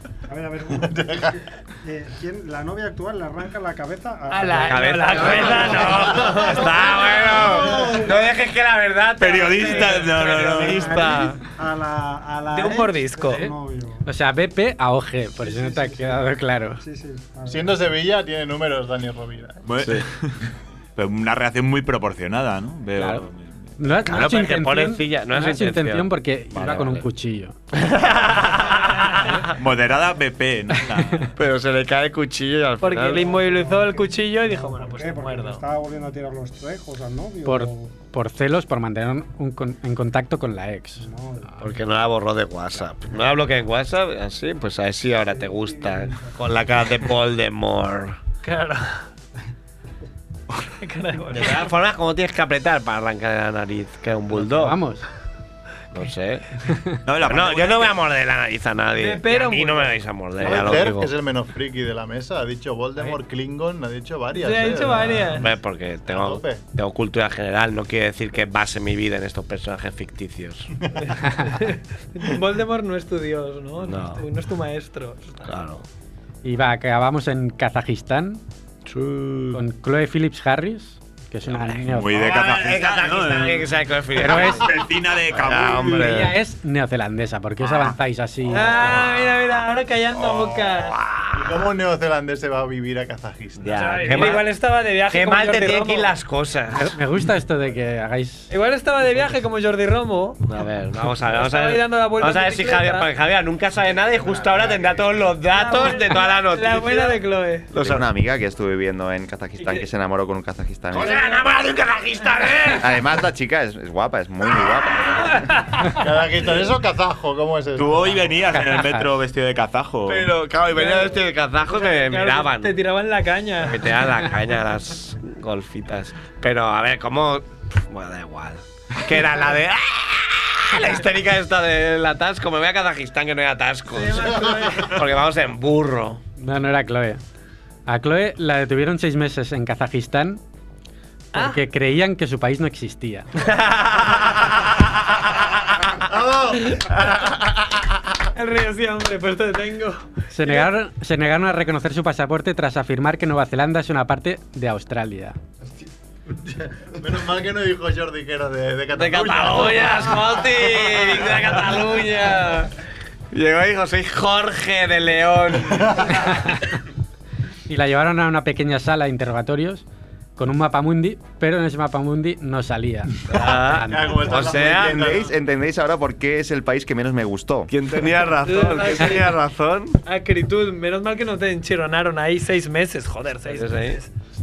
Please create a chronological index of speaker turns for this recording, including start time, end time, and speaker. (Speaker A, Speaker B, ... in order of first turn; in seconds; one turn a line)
Speaker A: 0.3-8.1
Speaker B: 0.8-1.4
Speaker C: 4.3-7.2
Speaker D: 4.6-11.4
Speaker E: 9.2-11.1
Speaker A: 10.3-14.1
Speaker C: 12.5-13.5
Speaker F: 14.0-16.8
Speaker A: 15.4-17.8
Speaker B: 17.5-19.6
Speaker E: 19.6-20.4
Speaker E: 21.0-23.7
Speaker F: 23.0-23.3
Speaker F: 23.8-27.6
Speaker D: 24.1-27.1
Speaker D: 27.7-29.5
Speaker C: 28.7-29.5
Speaker E: 29.6-31.3
Speaker D: 31.4-33.4
Speaker C: 32.8-35.6
Speaker A: 33.2-38.0
Speaker F: 37.4-41.1
Speaker A: 41.0-41.8
Speaker D: 41.6-48.2
Speaker A: 45.3-46.3
Speaker C: 48.4-49.1
Speaker C: 50.8-51.7
Speaker D: 51.3-54.8
Speaker F: 54.4-55.0
Speaker D: 55.9-56.6
Speaker F: 56.7-57.0
Speaker E: 57.1-58.0
Speaker D: 57.2-61.1
Speaker C: 59.0-60.7
Speaker B: 60.4-65.4
Speaker C: 64.4-65.5
Speaker D: 65.3-70.7
Speaker B: 66.1-66.6
Speaker C: 71.0-75.5
Speaker D: 73.8-74.2
Speaker D: 75.5-75.8
Speaker F: 76.4-78.4
Speaker D: 78.9-79.6
Speaker F: 79.5-82.4
Speaker D: 81.5-86.4
Speaker E: 81.8-86.2
Speaker F: 84.2-84.7
Speaker F: 86.0-89.1
Speaker D: 88.5-89.1
Speaker C: 88.5-91.0
Speaker D: 90.5-91.6
Speaker B: 91.3-94.4
Speaker D: 93.6-94.5
Speaker C: 93.8-96.1
Speaker D: 95.1-97.0
Speaker F: 96.8-98.5
Speaker C: 98.5-100.4
Speaker D: 100.5-107.2
Speaker C: 101.3-103.1
Speaker C: 105.5-107.7
Speaker D: 107.7-108.1
Speaker G: 107.8-111.2
Speaker C: 109.6-109.8
Speaker D: 110.9-113.0
Speaker C: 111.0-111.4
Speaker G: 112.8-115.5
Speaker C: 115.1-116.1
Speaker B: 115.9-118.3
Speaker E: 117.8-120.3
Speaker F: 118.5-119.1
Speaker D: 120.1-122.8
Speaker C: 120.7-124.0
Speaker D: 123.6-136.2
Speaker C: 133.9-135.0
Speaker F: 136.4-137.2
Speaker F: 137.9-140.4
Speaker F: 141.3-143.4
Speaker C: 141.3-141.6
Speaker D: 143.4-144.9
Speaker B: 146.1-147.3
Speaker C: 148.3-150.7
Speaker F: 150.3-155.4
Speaker B: 156.3-161.8
Speaker D: 158.9-166.3
Speaker F: 166.2-166.6
Speaker F: 167.7-169.8
Speaker F: 170.4-174.3
Speaker D: 173.3-175.2
Speaker B: 173.8-175.3
Speaker G: 174.6-177.7
Speaker D: 177.7-180.0
Speaker C: 178.4-179.3
Speaker C: 180.1-184.1
Speaker D: 183.5-184.0